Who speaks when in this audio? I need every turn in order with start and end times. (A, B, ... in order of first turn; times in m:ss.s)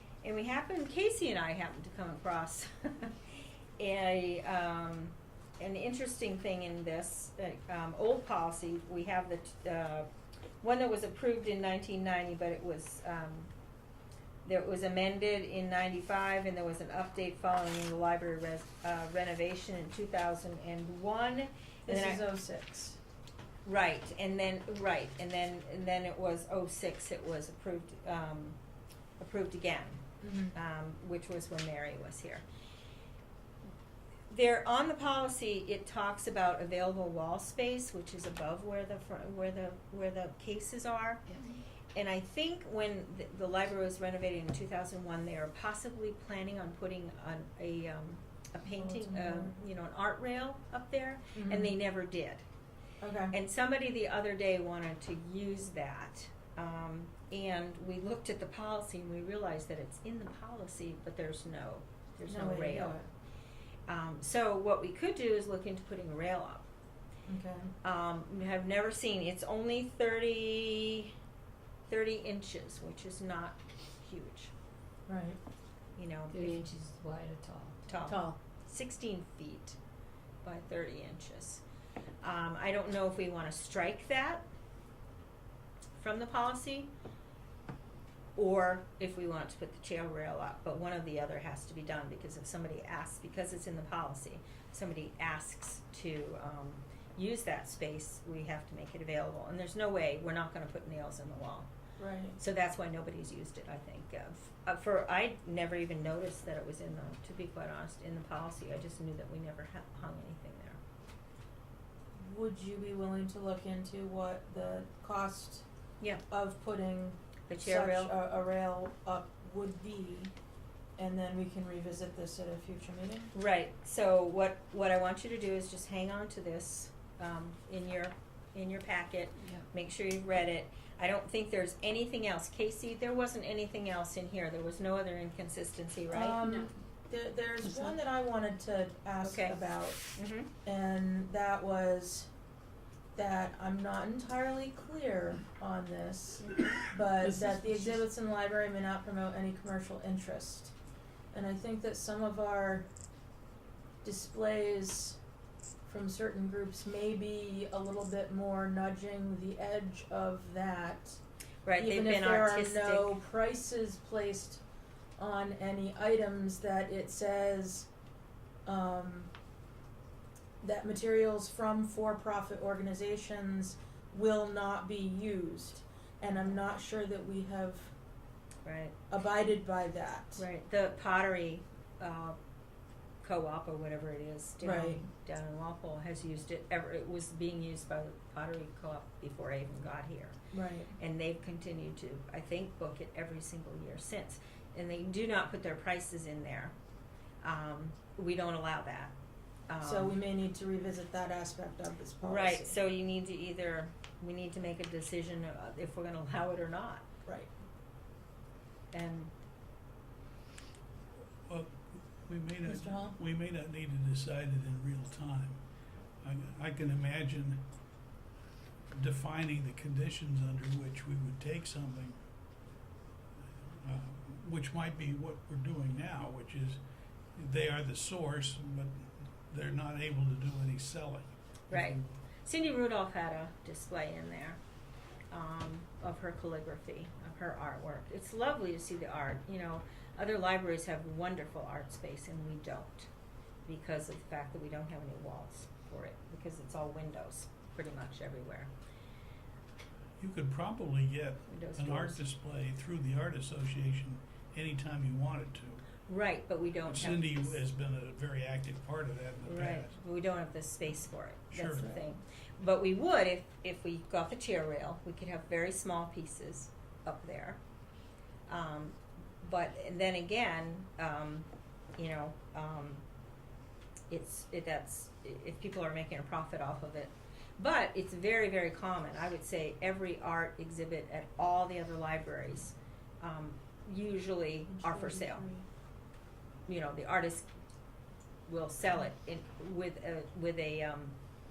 0:00.2-0:03.2 A
0:03.8-0:10.1 A
0:10.6-0:13.5 A
0:14.4-0:22.2 A
0:21.9-0:23.0 B
0:23.6-0:28.6 A
0:29.2-0:30.0 A
0:30.2-0:30.5 B
0:30.5-0:32.4 A
0:34.3-0:41.2 A
0:42.0-0:52.4 A
0:48.7-0:49.6 B
0:51.4-0:51.7 B
0:53.0-0:53.4 B
0:53.3-1:03.0 A
1:02.3-1:03.1 B
1:03.9-1:06.7 A
1:07.3-1:07.7 B
1:07.8-1:11.1 A
1:11.9-1:14.5 A
1:15.1-1:15.4 B
1:16.0-1:16.6 A
1:16.3-1:17.8 C
1:17.9-1:19.8 A
1:18.1-1:18.4 B
1:20.4-1:21.6 A
1:22.2-1:24.4 A
1:26.0-1:26.9 A
1:28.4-1:41.7 A
1:42.0-1:42.4 B
1:42.4-1:50.8 A
1:52.2-1:55.7 B
1:56.3-2:00.3 B
1:57.5-1:58.1 A
2:01.0-2:03.3 B
2:03.3-2:16.4 A
2:16.1-2:20.0 B
2:16.4-2:16.7 C
2:17.6-2:17.9 C
2:19.2-2:19.6 A
2:20.2-2:20.5 A
2:20.6-2:22.3 B
2:23.2-2:30.7 B
2:31.3-2:32.9 B
2:34.0-2:35.2 B
2:35.8-2:41.2 B
2:41.6-2:43.1 A
2:41.8-2:44.6 B
2:45.2-2:47.9 B
2:48.7-2:49.3 B
2:50.6-2:57.9 B
2:58.6-2:59.0 A
2:59.1-3:00.4 B
3:00.4-3:02.4 A
3:03.2-3:10.4 A
3:04.6-3:05.0 B
3:10.5-3:10.9 B
3:11.0-3:16.8 A
3:17.4-3:19.1 A
3:19.7-3:20.2 A
3:19.8-3:22.8 B
3:22.2-3:27.0 A
3:28.9-3:29.3 A
3:31.5-3:35.6 D
3:32.6-3:33.2 B
3:36.2-3:37.6 D
3:38.9-3:42.2 D
3:43.5-3:46.8 D
3:47.4-3:52.2 D
3:51.7-3:54.6 A
3:55.3-4:03.1 A
4:03.7-4:08.7 A
4:10.2-4:15.8 D
4:11.5-4:12.2 A
4:16.1-4:17.6 A
4:16.9-4:19.9 D
4:19.4-4:27.6 A
4:21.5-4:22.0 D
4:28.5-4:33.0 A
4:34.1-4:45.5 A
4:44.8-4:45.7 B
4:46.7-4:47.5 A
4:48.5-4:51.2 A